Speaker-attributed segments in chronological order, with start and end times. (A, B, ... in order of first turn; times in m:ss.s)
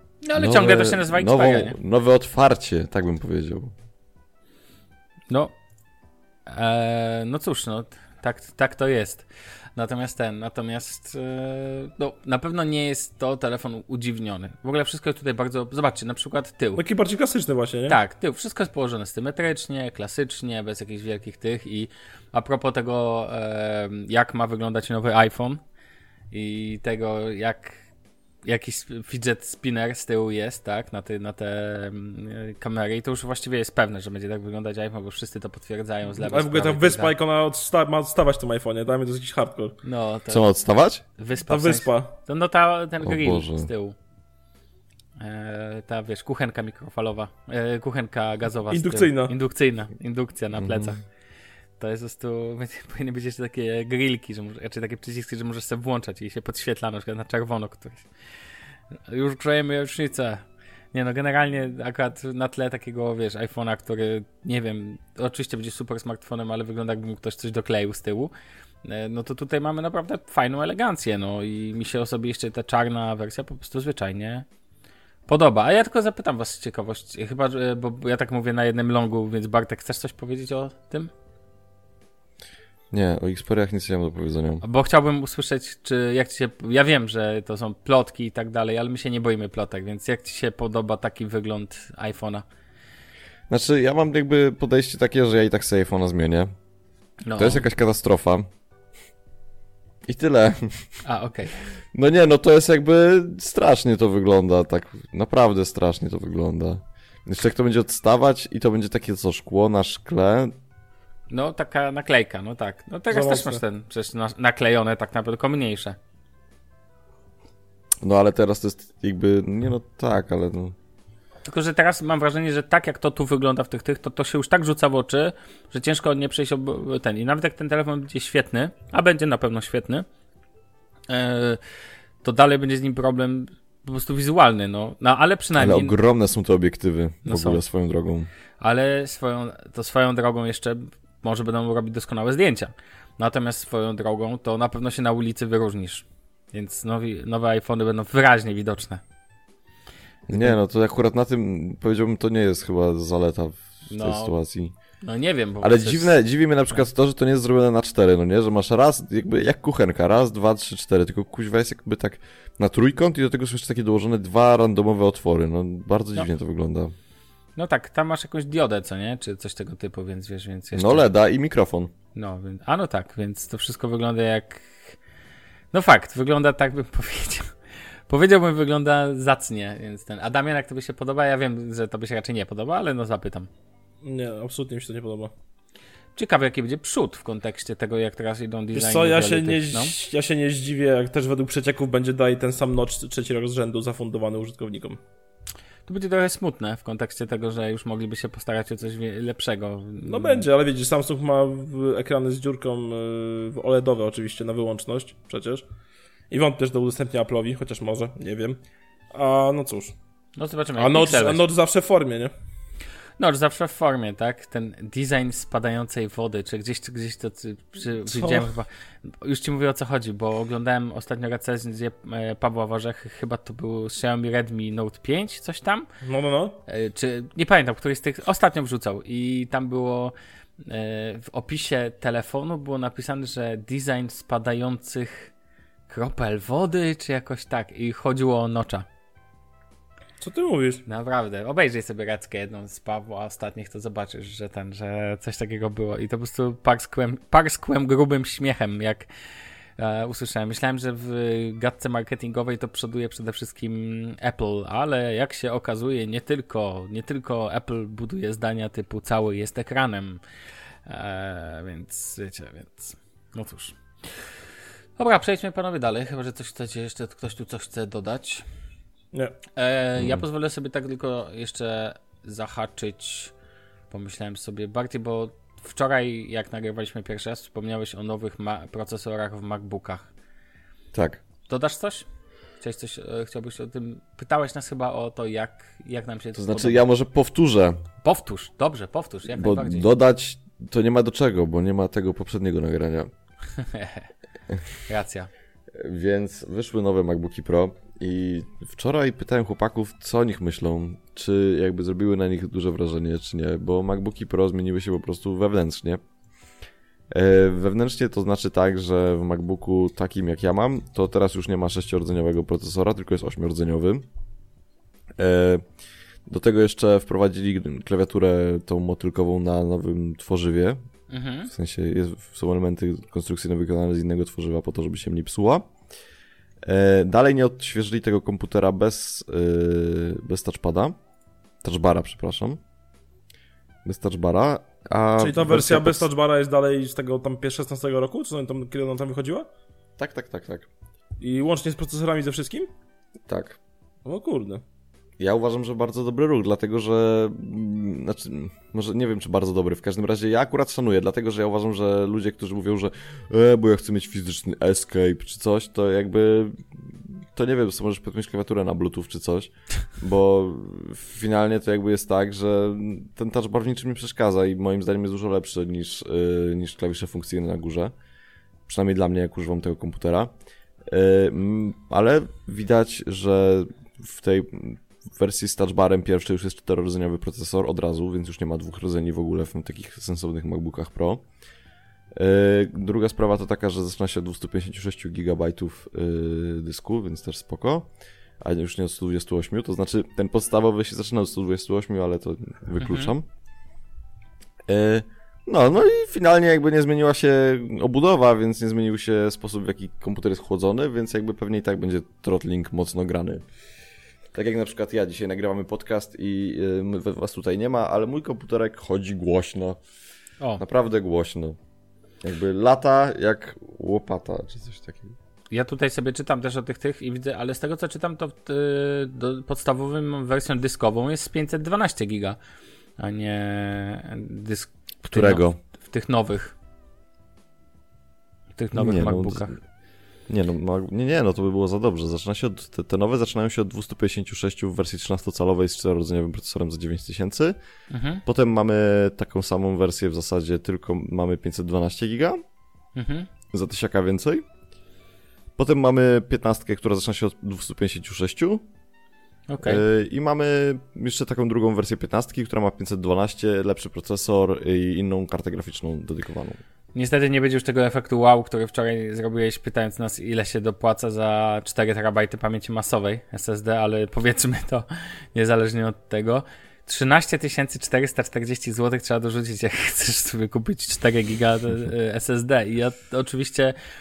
0:00.2-0:01.7 A
0:00.4-0:03.7 B
0:06.5-0:16.8 A
0:16.8-0:18.0 C
0:17.9-0:25.6 A
0:26.3-0:27.8 A
0:28.4-0:37.1 A
0:36.2-0:39.8 C
0:39.8-0:40.4 A
0:40.3-0:41.0 B
0:41.2-0:44.0 A
0:41.5-0:42.1 C
0:43.0-0:43.7 B
0:45.2-0:51.0 A
0:48.7-0:49.3 C
0:50.6-0:51.0 B
0:51.8-0:58.1 A
0:59.1-1:08.3 A
1:08.8-1:14.4 A
1:15.3-1:21.1 A
1:22.9-1:24.6 B
1:24.6-1:32.4 A
1:33.5-1:36.5 B
1:37.2-1:37.6 A
1:37.4-1:38.5 B
1:40.1-1:41.0 B
1:41.0-1:41.6 A
1:41.9-1:50.5 B
1:51.3-1:56.0 A
1:53.1-1:53.6 C
1:58.0-2:00.7 B
2:01.4-2:10.0 A
2:11.1-2:11.6 A
2:12.2-2:15.9 A
2:15.6-2:18.3 B
2:17.2-2:17.6 A
2:18.6-2:29.0 A
2:30.3-2:30.6 A
2:30.3-2:34.7 B
2:33.9-2:34.3 A
2:35.0-2:36.1 A
2:35.6-2:46.9 B
2:47.6-2:51.1 A
2:50.7-2:51.9 B
2:52.1-2:54.9 A
2:55.7-2:57.5 A
2:58.1-3:03.5 A
3:04.0-3:05.3 C
3:06.1-3:09.9 A
3:08.7-3:15.0 C
3:15.9-3:20.4 A
3:20.0-3:25.6 C
3:26.3-3:28.6 C
3:29.1-3:29.9 C
3:30.4-3:31.4 A
3:30.8-3:32.3 C
3:33.2-3:38.7 A
3:38.1-3:38.5 C
3:39.2-3:45.9 A
3:46.0-3:46.6 C
3:46.7-3:55.3 A
3:55.9-3:58.8 A
4:00.2-4:00.8 C
4:00.8-4:09.1 A
4:09.8-4:20.2 A
4:20.8-4:23.8 A
4:25.0-4:28.4 A
4:29.6-4:33.3 A
4:30.0-4:30.2 B
4:33.9-4:40.1 A
4:40.9-4:41.2 B
4:41.5-4:42.0 A
4:42.6-4:46.8 A
4:46.3-4:47.8 B
4:48.0-4:49.9 A
4:49.3-4:53.1 B
4:53.6-4:54.1 A
4:54.8-4:55.3 A
4:55.7-5:06.0 B
5:07.1-5:14.0 B
5:15.2-5:15.6 B
5:16.2-5:20.8 B
5:21.1-5:21.5 A
5:21.5-5:25.7 B
5:26.6-5:30.9 B
5:31.6-5:32.6 B
5:33.8-5:36.1 B
5:35.2-5:39.5 C
5:40.0-5:40.7 B
5:41.2-5:42.7 C
5:43.3-5:43.6 B
5:44.0-5:44.6 C
5:45.2-6:07.9 B
6:08.7-6:10.3 B
6:10.9-6:21.2 B
6:22.1-6:27.9 B
6:28.4-6:33.2 B
6:32.8-6:33.1 A
6:34.7-6:43.4 B
6:44.3-6:49.8 B
6:50.6-6:51.6 B
6:52.2-6:55.1 B
6:55.5-7:02.4 A
7:03.0-7:06.5 A
7:05.0-7:05.6 B
7:08.6-7:09.6 A
7:08.7-7:09.6 B
7:10.3-7:17.5 B
7:17.9-7:18.2 A
7:18.2-7:22.4 B
7:23.0-7:23.3 A
7:23.5-7:24.4 B
7:25.6-7:28.6 B
7:29.5-7:29.8 A
7:29.6-7:36.6 B
7:36.9-7:53.8 A